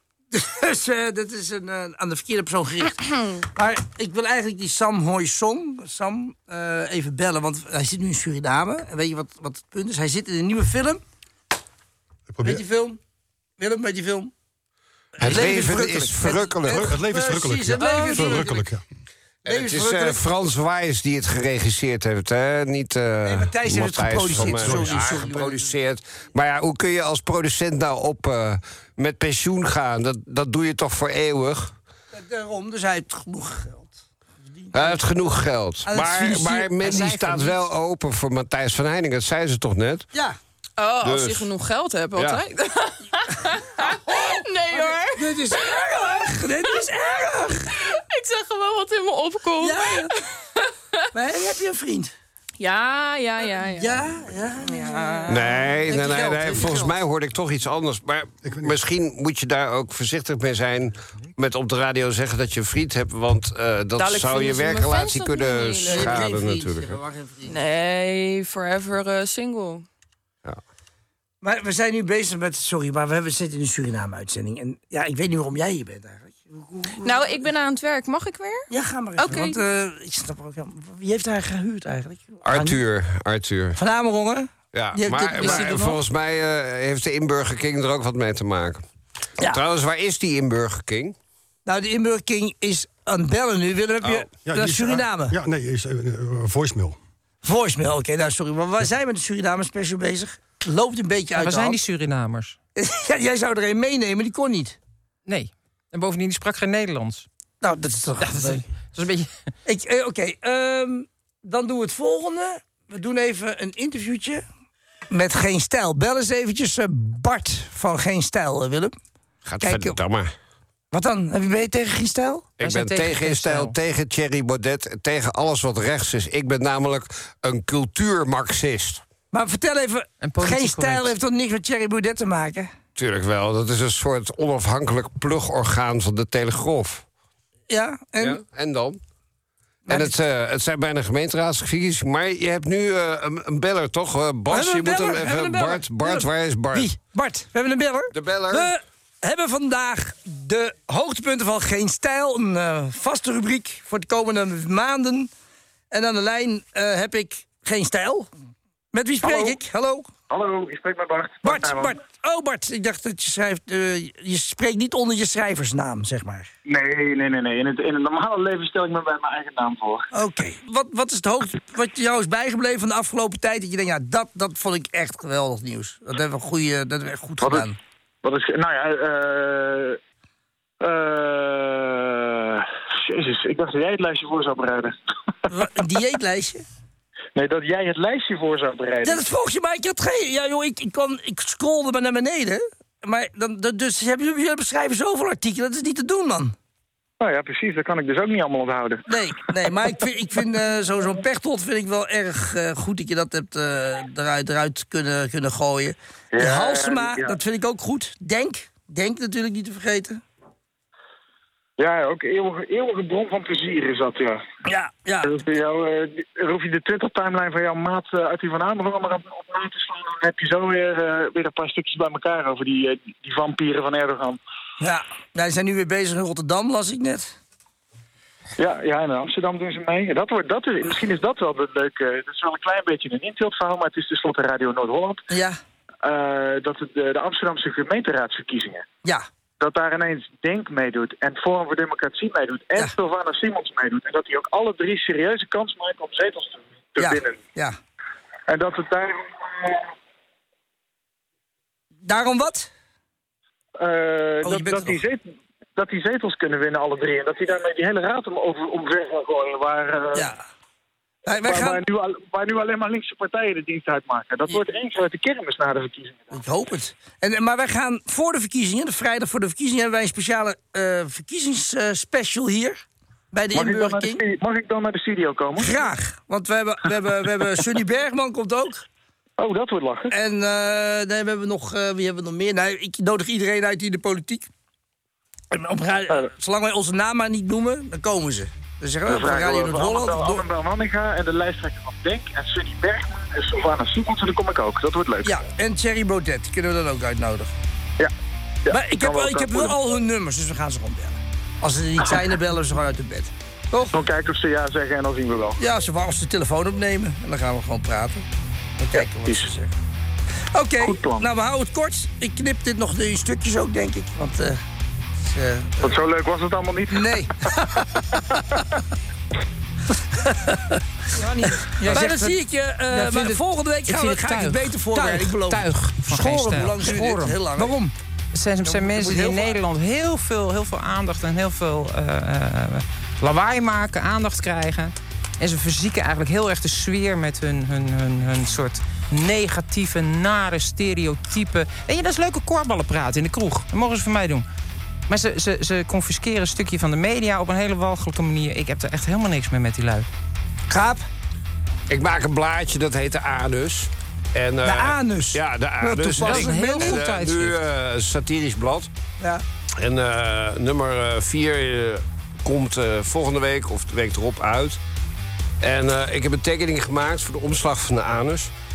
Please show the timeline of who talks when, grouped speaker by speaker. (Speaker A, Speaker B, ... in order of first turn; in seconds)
Speaker A: 0.3-11.0, 12.4-13.0, 13.6-14.3, 15.2-18.7, 19.4-20.2, 23.2-25.7, 32.1-35.0, 35.9-37.1, 40.1-40.4, 44.1-47.7, 49.6-50.1, 51.1-52.1, 53.8-57.0, 65.8-67.5, 71.4-77.4, 78.7-82.8, 83.8-86.0, 91.6-95.4, 97.4-101.8, 102.8-104.8, 107.6-108.6, 109.7-114.4, 115.1-118.9, 119.6-120.0, 120.9-122.5, 129.3-132.7, 137.7-138.4, 139.9-140.1, 144.5-155.3, 155.9-158.3, 158.9-160.1, 161.4-166.5, 170.1-177.8, 185.5-186.6, 189.0-196.5, 199.1-210.2, 214.7-215.4, 224.8-227.3, 235.3-235.6, 247.0-247.8, 252.0-252.7, 254.4-255.0, 261.2-261.8, 266.3-274.2, 275.6-278.8, 280.1-284.5, 285.5-290.5, 295.2-297.5, 298.7-304.0, 305.6-308.2, 308.8-309.7, 310.5-314.6, 315.2-315.9, 316.9-317.3, 320.2-327.9, 328.6-329.6, 350.7-351.1, 354.6-357.0
Speaker B: 12.3-12.6, 16.6-18.8, 24.3-25.1, 58.4-58.7, 94.4-97.0
Speaker C: 15.2-16.9, 19.4-31.7, 34.7-40.1, 41.0-41.5, 42.1-42.4, 55.3-67.0, 82.4-83.8, 84.7-88.8, 89.4-91.1, 119.4-120.3, 122.6-129.0, 132.9-137.0, 138.2-139.0, 139.9-146.9, 148.1-148.7, 351.9-358.9, 359.8-364.8, 365.6-368.5
Speaker D: 17.8-18.3, 40.8-45.8, 47.7-51.1, 52.6-54.0, 54.6-55.6, 64.0-66.2, 67.5-69.8, 77.0-79.6
Speaker E: 36.8-37.6, 101.3-102.6, 105.3-107.3, 108.2-109.3, 122.6-123.7, 130.2-131.1, 321.8-322.4, 322.9-327.7, 328.3-344.4, 345.1-350.1, 356.2-357.6
Speaker F: 159.2-159.6, 160.3-162.0, 166.7-170.1, 177.4-177.7, 178.2-180.0, 180.8-184.9, 187.3-189.2, 197.2-199.7, 206.3-207.4, 211.8-214.4, 215.2-224.4, 228.6-235.2, 236.0-238.8, 239.6-247.4, 248.5-249.9, 253.8-260.3, 261.4-266.4, 273.5-275.8, 279.4-280.1, 289.1-295.4, 298.6-299.9, 303.9-305.6, 308.9-309.5, 310.8-311.3, 315.8-317.1